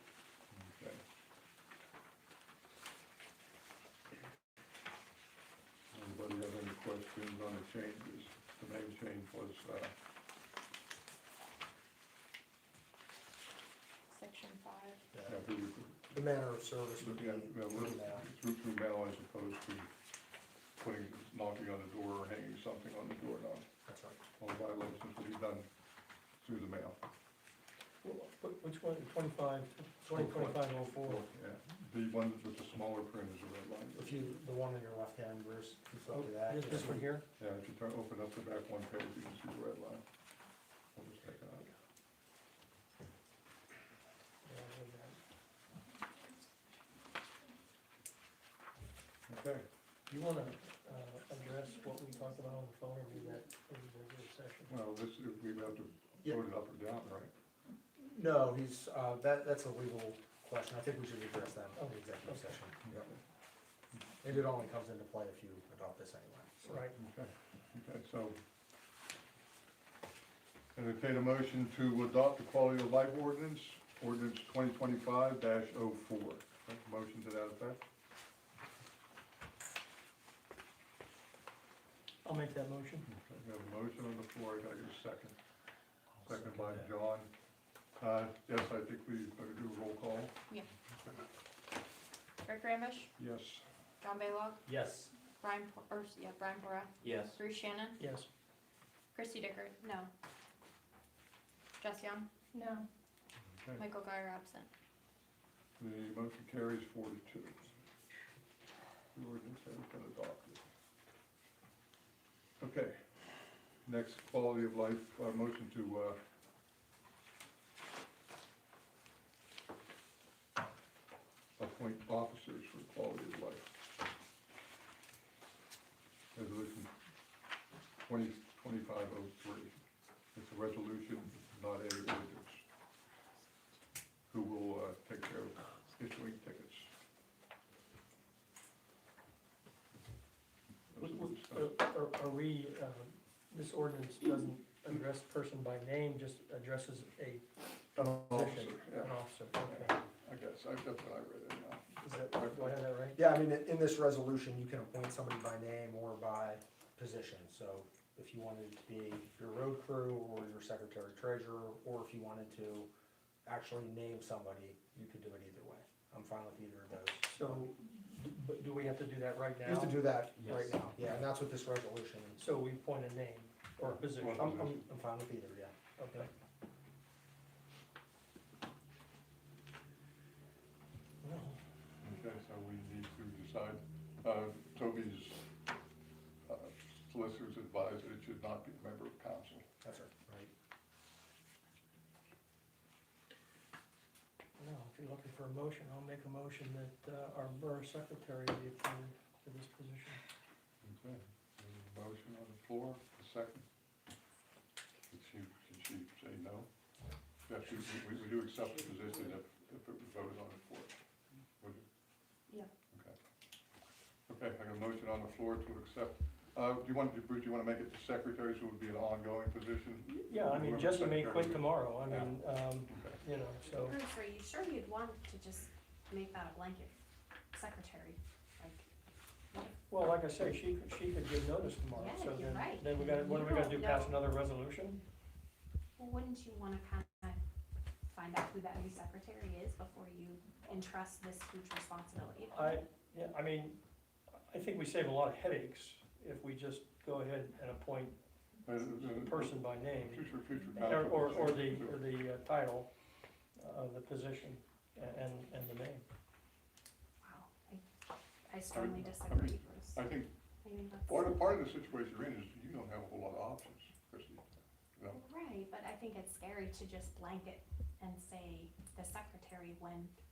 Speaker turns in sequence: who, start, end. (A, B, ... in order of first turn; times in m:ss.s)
0:00.5-0:01.0 A
0:05.9-0:09.9 A
0:14.1-0:15.0 B
0:15.1-0:15.4 C
0:15.3-0:16.2 A
0:16.1-0:18.3 C
0:17.0-0:19.9 A
0:20.8-0:23.7 A
0:23.9-0:24.2 C
0:24.4-0:25.7 A
0:26.4-0:27.0 A
0:28.0-0:31.3 D
0:30.1-0:34.3 A
0:34.0-0:37.1 C
0:36.1-0:37.3 D
0:37.4-0:40.0 A
0:41.0-0:41.7 A
0:44.4-0:45.2 D
0:49.3-0:49.7 A
0:50.1-0:54.7 D
0:54.7-0:57.3 A
0:58.0-1:03.1 C
1:01.8-1:02.6 D
1:04.2-1:06.8 C
1:06.6-1:07.0 D
1:07.0-1:08.4 A
1:10.8-1:17.8 A
1:22.2-1:23.1 D
1:23.1-1:25.4 A
1:26.2-1:27.3 A
1:26.3-1:26.9 E
1:28.0-1:30.3 A
1:32.4-1:33.1 B
1:33.2-1:33.7 A
1:34.0-1:34.6 B
1:34.7-1:35.1 E
1:35.4-1:38.0 B
1:37.0-1:37.3 E
1:38.0-1:38.3 D
1:39.2-1:39.8 B
1:39.8-1:40.1 F
1:41.8-1:42.9 B
1:43.5-1:43.8 A
1:43.8-1:44.7 B
1:45.8-1:47.7 A
1:49.1-1:50.6 A
1:52.6-1:53.1 A
1:53.8-1:56.2 A
2:01.6-2:03.7 A
2:06.3-2:06.9 A
2:08.1-2:09.8 A
2:10.4-2:12.6 A
2:14.3-2:16.9 A
2:20.9-2:21.7 A
2:21.4-2:27.4 D
2:28.0-2:32.8 A
2:28.0-2:29.9 D
2:32.0-2:33.2 D
2:33.1-2:42.9 C
2:43.5-2:47.7 C
2:47.3-2:50.8 D
2:49.6-2:52.4 C
2:50.4-2:51.2 E
2:52.4-2:54.8 D
2:53.8-2:54.8 A
2:54.5-2:56.3 C
2:56.0-2:56.3 D
3:01.2-3:01.6 D
3:02.0-3:05.4 A
3:06.5-3:09.7 A
3:09.8-3:10.5 C
3:14.6-3:20.2 D
3:20.8-3:23.6 A
3:25.1-3:26.7 A
3:27.5-3:31.0 A
3:31.6-3:31.8 A
3:34.3-3:43.2 A
3:40.1-3:44.0 D
3:43.7-3:46.9 F
3:47.5-3:48.8 F
3:49.5-3:49.8 F
3:49.9-3:55.0 D
3:51.9-3:54.2 F
3:56.0-3:57.4 F
3:58.1-4:02.8 F
4:02.5-4:03.8 D
4:04.5-4:08.2 D
4:08.7-4:12.0 A
4:09.2-4:10.3 D
4:10.8-4:12.9 D
4:13.6-4:16.0 D
4:17.2-4:17.8 F
4:18.5-4:20.1 F
4:18.7-4:20.3 A
4:20.6-4:21.4 F
4:21.0-4:25.2 A
4:25.1-4:30.1 F